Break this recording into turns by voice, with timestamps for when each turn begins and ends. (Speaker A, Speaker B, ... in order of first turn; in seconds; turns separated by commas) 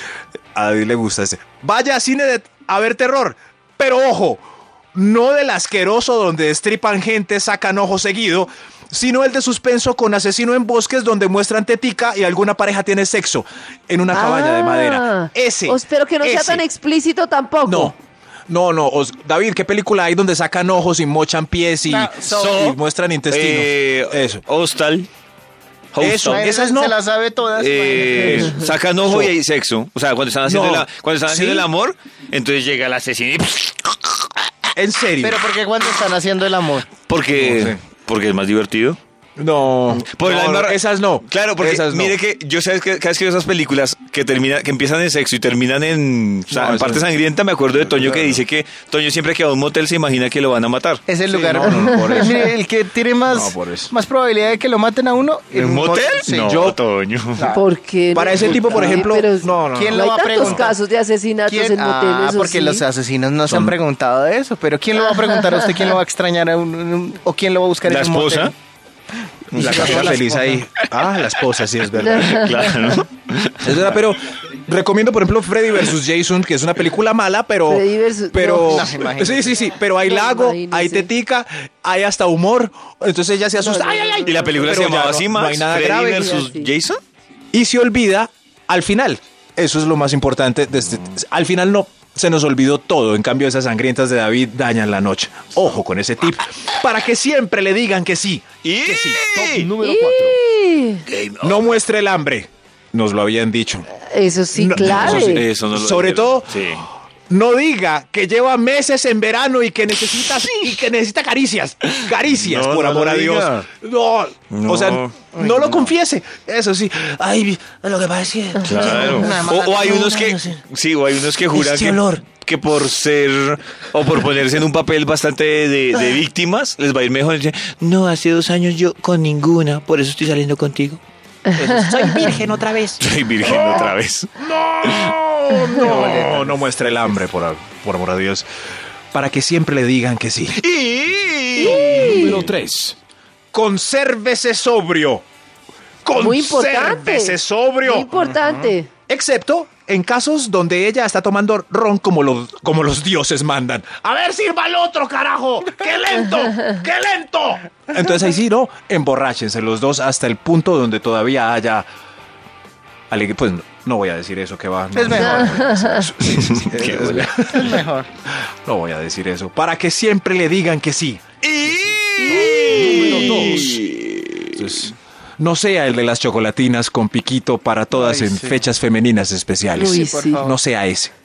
Speaker A: 0.5-4.4, Speaker A: 4.9-16.6, Speaker B: 14.1-17.9, Speaker A: 17.7-18.0, Speaker A: 18.5-24.4, Speaker C: 21.9-22.6, Speaker D: 22.2-22.8, Speaker D: 23.3-25.1, Speaker D: 25.9-26.5, Speaker A: 26.0-26.9, Speaker C: 26.2-28.6, Speaker D: 27.5-34.3, Speaker A: 28.2-29.3, Speaker A: 30.4-31.7, Speaker A: 34.7-35.4, Speaker C: 35.2-36.9, Speaker D: 37.0-39.0, Speaker A: 37.4-37.8, Speaker A: 39.4-42.1, Speaker D: 40.0-51.0, Speaker A: 46.5-47.1, Speaker A: 47.7-48.4, Speaker C: 51.1-56.6, Speaker A: 51.2-52.5, Speaker B: 51.9-52.4, Speaker A: 53.3-53.9, Speaker D: 55.5-57.5, Speaker A: 56.4-56.8, Speaker C: 57.4-57.6, Speaker B: 57.5-62.9, Speaker A: 58.1-60.6, Speaker C: 58.5-59.2, Speaker C: 59.7-60.7, Speaker C: 61.5-68.5, Speaker A: 63.4-63.8, Speaker D: 67.8-68.5, Speaker D: 69.5-70.2, Speaker C: 69.5-70.6, Speaker A: 69.5-72.6, Speaker B: 72.0-72.9, Speaker D: 72.2-73.8, Speaker A: 73.6-86.3, Speaker B: 77.7-78.9, Speaker C: 78.6-79.6, Speaker B: 80.0-81.1, Speaker B: 83.6-84.8, Speaker D: 84.2-87.0, Speaker B: 86.2-86.7, Speaker A: 87.5-99.2, Speaker D: 98.6-99.7, Speaker E: 99.2-100.4, Speaker B: 99.8-101.0, Speaker D: 101.1-101.6, Speaker A: 101.4-103.9, Speaker B: 104.1-105.4, Speaker A: 104.5-106.6, Speaker D: 104.8-106.9, Speaker A: 107.3-120.6, Speaker D: 111.9-113.7, Speaker D: 114.5-115.1, Speaker C: 115.3-115.9, Speaker D: 118.6-131.0, Speaker C: 118.8-120.3, Speaker A: 121.5-122.2, Speaker A: 131.6-138.4, Speaker B: 131.6-132.1, Speaker D: 133.0-134.3, Speaker D: 134.8-135.1, Speaker C: 135.8-136.7, Speaker A: 139.1-140.6, Speaker D: 140.6-142.3, Speaker B: 141.6-142.4, Speaker E: 141.6-142.9, Speaker A: 143.5-145.2, Speaker A: 146.1-148.1, Speaker B: 146.2-148.9, Speaker C: 148.4-148.7, Speaker A: 149.1-161.9, Speaker A: 163.1-167.8, Speaker C: 164.9-165.6, Speaker B: 165.2-166.1, Speaker D: 166.4-167.7, Speaker C: 167.4-168.1, Speaker A: 168.6-173.7, Speaker D: 171.4-174.9, Speaker B: 172.2-173.7, Speaker E: 172.4-173.8, Speaker A: 174.5-181.1, Speaker C: 177.9-178.6, Speaker C: 179.8-180.6, Speaker B: 179.8-180.4